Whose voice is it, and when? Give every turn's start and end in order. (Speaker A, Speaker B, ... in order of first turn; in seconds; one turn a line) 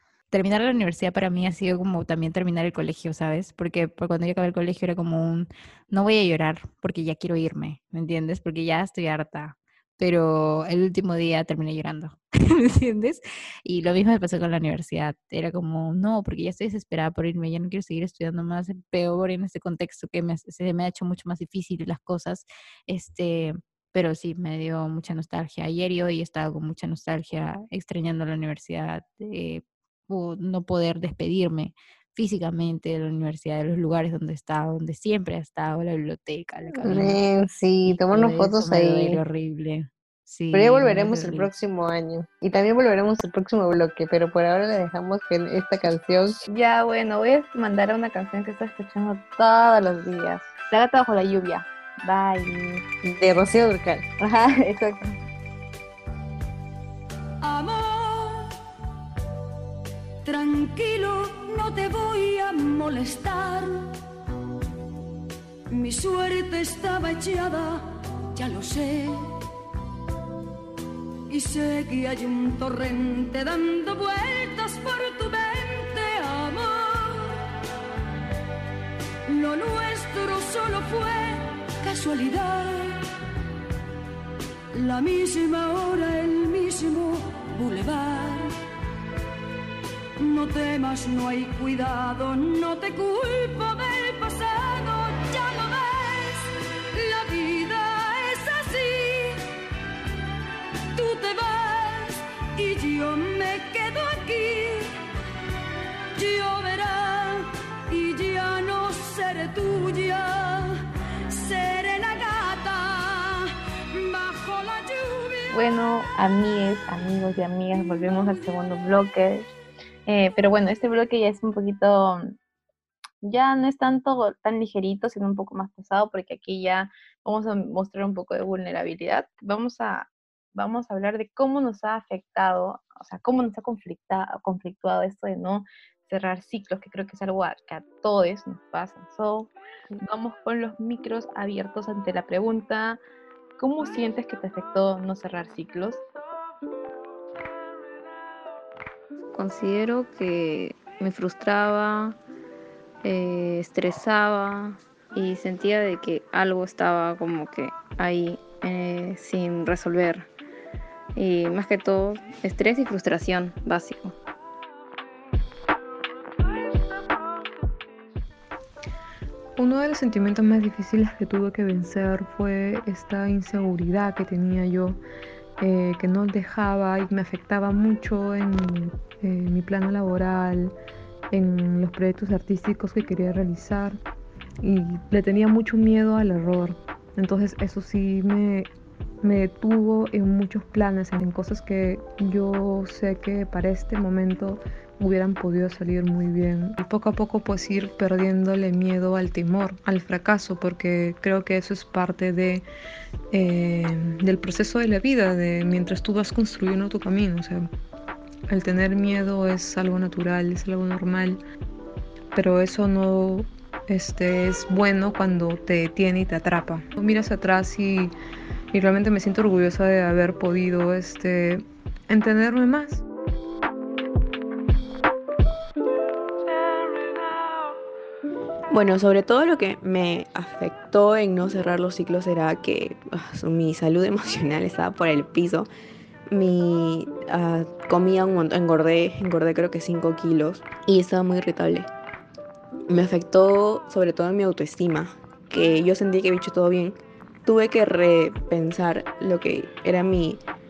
Speaker A: 0.3-37.2
Speaker B: 36.8-39.2
Speaker A: 37.8-41.5
Speaker B: 40.5-46.4
Speaker C: 46.5-52.8
Speaker B: 53.0-54.0
Speaker C: 54.2-55.1
Speaker D: 57.4-58.5
Speaker D: 60.2-63.9
Speaker D: 65.7-69.3
Speaker D: 71.3-77.4
Speaker D: 79.2-83.0
Speaker D: 84.7-88.5
Speaker D: 90.2-99.4
Speaker D: 100.9-104.9
Speaker D: 106.1-115.5
Speaker C: 115.5-119.5
Speaker C: 120.1-122.3
Speaker C: 123.2-143.0
Speaker C: 143.6-146.0
Speaker E: 149.3-152.2
Speaker E: 153.0-160.3
Speaker E: 161.2-164.1
Speaker F: 169.6-175.0
Speaker F: 175.6-180.7
Speaker F: 181.3-184.0
Speaker F: 184.6-188.7
Speaker F: 189.2-202.6
Speaker F: 203.3-207.7
Speaker F: 208.5-211.4
Speaker F: 212.3-218.1
Speaker F: 218.7-223.0
Speaker G: 228.7-235.7
Speaker G: 236.3-241.9
Speaker G: 242.9-250.4